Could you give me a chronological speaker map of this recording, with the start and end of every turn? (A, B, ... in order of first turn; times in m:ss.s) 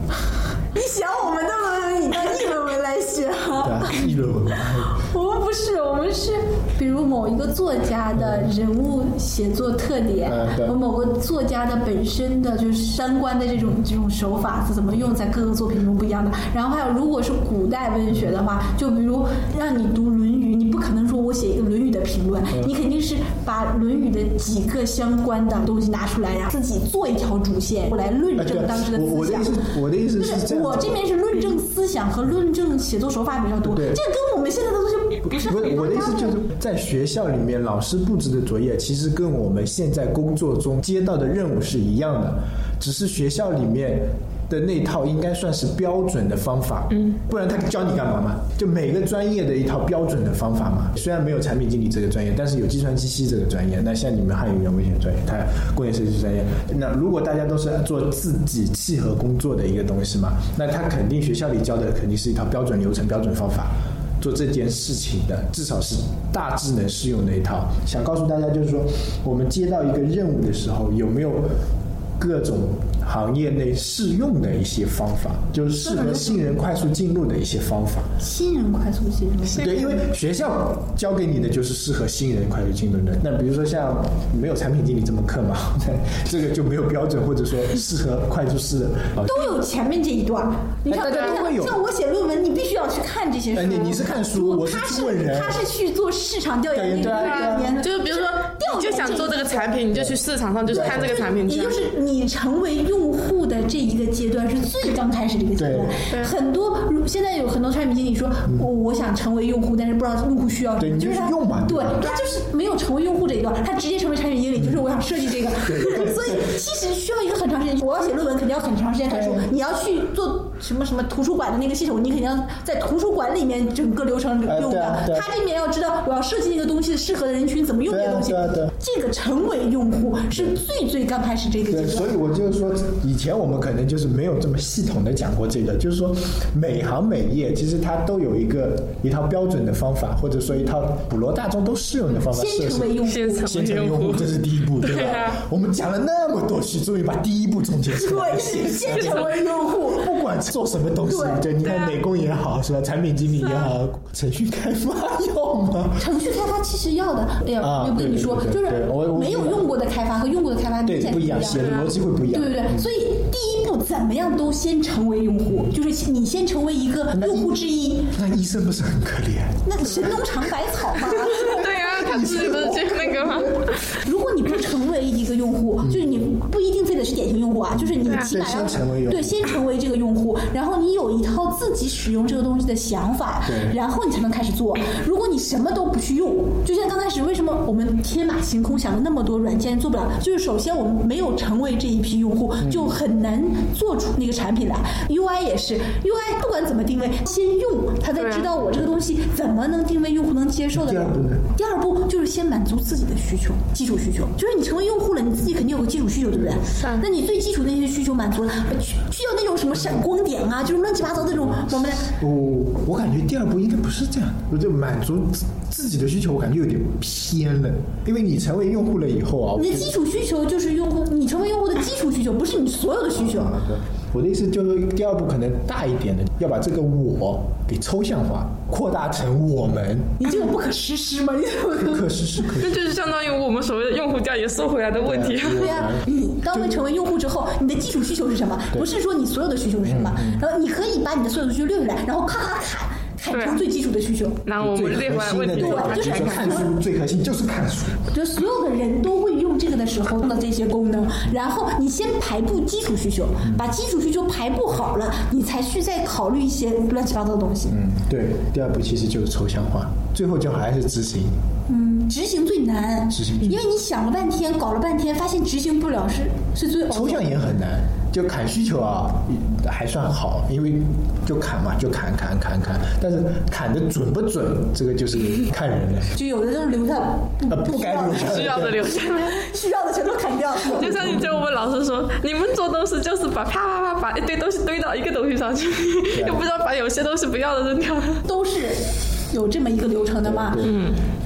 0:00.6-0:04.1 A
0:03.6-0:05.0 B
0:04.9-0:36.4 A
0:08.2-0:08.5 B
0:10.2-0:10.7 B
0:28.4-0:31.0 B
0:33.6-0:34.0 B
0:35.4-1:11.5 B
1:12.2-1:18.1 B
1:15.8-1:16.4 A
1:18.2-1:20.0 A
1:19.5-1:29.6 B
1:29.2-1:39.8 A
1:30.9-1:31.8 B
1:33.5-1:35.7 B
1:36.7-1:37.7 B
1:37.2-1:41.8 C
1:39.9-1:41.2 B
1:40.8-2:12.1 A
1:45.6-1:45.9 B
1:46.1-1:46.3 C
1:50.8-1:52.1 B
1:55.6-1:56.3 B
1:59.1-1:59.5 B
2:04.5-2:05.2 B
2:07.9-2:08.7 B
2:10.3-2:10.6 B
2:11.7-2:36.0 B
2:22.3-2:23.6 A
2:23.0-2:25.4 C
2:27.9-2:30.1 A
2:31.1-2:31.4 A
2:31.6-2:32.0 C
2:36.0-2:41.7 A
2:37.6-2:39.7 B
2:40.9-2:42.8 B
2:41.6-2:41.9 C
2:42.3-2:48.1 A
2:47.1-2:47.5 B
2:48.1-2:50.3 B
2:49.6-2:51.7 A
2:51.3-2:54.0 C
2:51.6-2:53.6 B
2:53.9-3:32.1 A
2:55.8-2:56.1 B
2:57.8-2:59.5 B
3:03.4-3:03.8 B
3:12.6-3:13.0 B
3:18.2-3:18.5 C
3:20.7-3:21.5 B
3:26.7-3:27.0 C
3:32.2-3:39.9 B
3:39.5-3:43.6 A
3:43.1-3:50.2 B
3:50.2-3:52.1 A
3:51.7-3:52.8 B
3:52.6-3:55.8 C
3:55.0-3:56.7 B
3:55.5-4:04.4 A
3:59.8-4:00.4 B
4:03.3-4:03.6 C
4:04.4-4:06.6 C
4:04.6-4:08.0 B
4:05.5-4:06.7 A
4:08.1-4:17.8 A
4:17.7-4:21.4 B
4:21.7-4:27.4 A
4:23.1-4:23.6 B
4:26.9-4:36.1 B
4:36.1-4:41.2 A
4:37.5-4:38.8 B
4:38.2-4:39.4 C
4:40.6-4:48.2 C
4:40.8-4:41.4 B
4:46.1-4:46.4 B
4:48.2-4:50.6 A
4:50.2-4:50.9 B
4:50.6-4:51.0 C